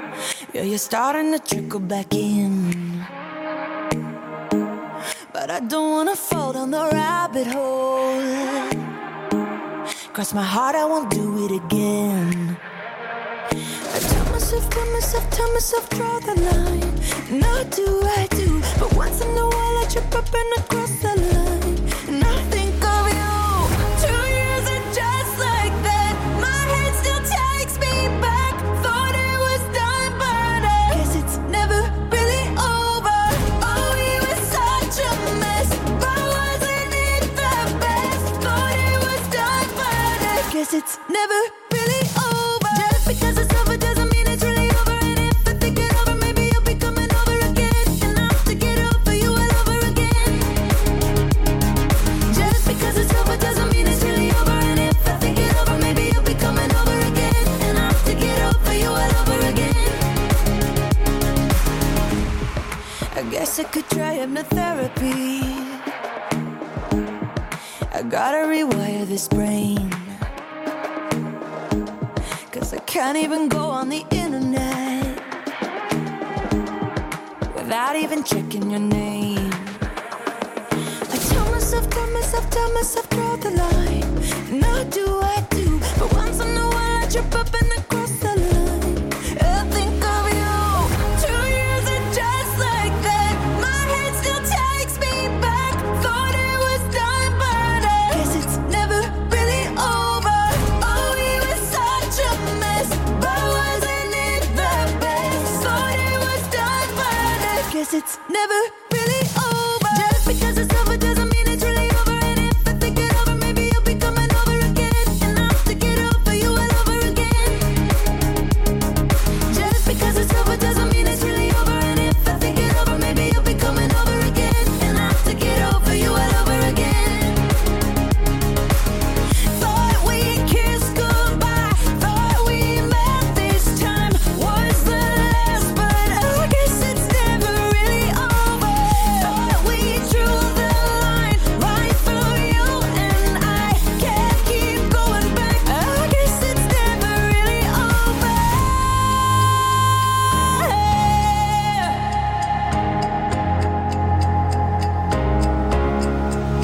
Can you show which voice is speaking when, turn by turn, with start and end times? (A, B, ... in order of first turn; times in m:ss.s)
0:00.5-0:03.1 A
0:05.3-0:08.9 A
0:10.1-0:12.6 A
0:13.9-0:50.6 A
0:52.3-1:00.1 A
1:03.1-1:05.9 A
1:07.9-1:10.2 A
1:12.5-1:15.2 A
1:17.5-1:19.8 A
1:21.1-1:57.9 A
1:59.5-2:07.5 A
2:09.5-2:29.0 A
2:30.3-2:32.0 A